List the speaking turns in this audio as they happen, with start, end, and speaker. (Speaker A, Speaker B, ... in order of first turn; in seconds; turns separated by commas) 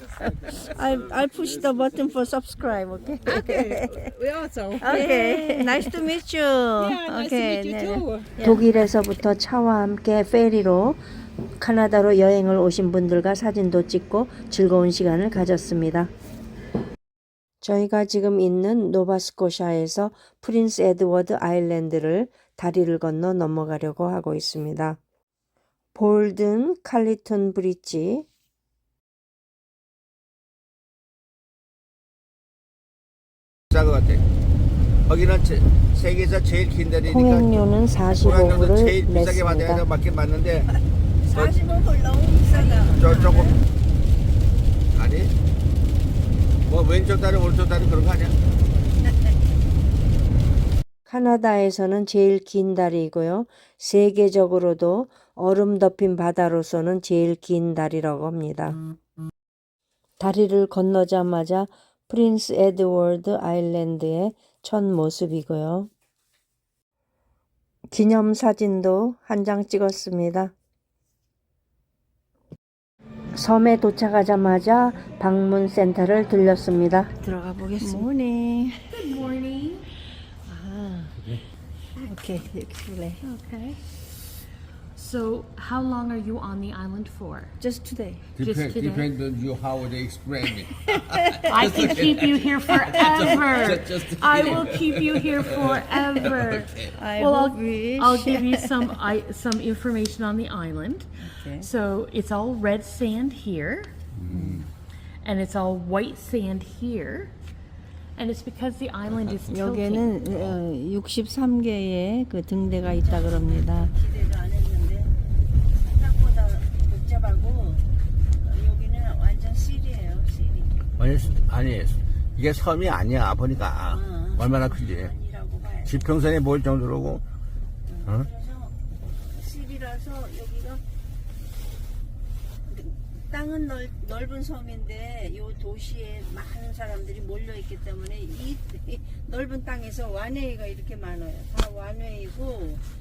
Speaker A: 0.3-4.1, Speaker B: 3.3-5.3, Speaker A: 4.8-8.6, Speaker C: 4.8-5.7, Speaker B: 6.8-8.3, Speaker C: 8.4-11.0, Speaker C: 11.6-16.1, Speaker C: 17.6-25.0, Speaker C: 25.9-28.2, Speaker D: 33.7-34.2, Speaker D: 35.1-37.6, Speaker C: 37.1-39.9, Speaker D: 38.1-40.7, Speaker D: 41.3-41.5, Speaker A: 41.3-43.6, Speaker D: 42.8-43.6, Speaker D: 44.9-45.3, Speaker D: 46.6-48.4, Speaker C: 51.1-58.8, Speaker C: 60.2-65.9, Speaker C: 67.9-70.5, Speaker C: 73.3-77.2, Speaker A: 77.2-78.9, Speaker E: 78.9-79.9, Speaker A: 80.5-81.1, Speaker A: 82.0-83.2, Speaker E: 83.2-83.9, Speaker E: 85.0-87.5, Speaker A: 87.6-88.2, Speaker E: 88.4-89.1, Speaker D: 88.4-97.0, Speaker E: 91.5-103.9, Speaker C: 97.0-98.8, Speaker D: 104.1-104.7, Speaker E: 105.2-107.3, Speaker E: 108.2-110.2, Speaker A: 109.5-115.2, Speaker A: 115.8-117.9, Speaker A: 118.4-120.8, Speaker D: 121.0-125.1, Speaker A: 123.9-126.0, Speaker D: 125.8-127.2, Speaker A: 127.9-130.8, Speaker A: 132.7-142.8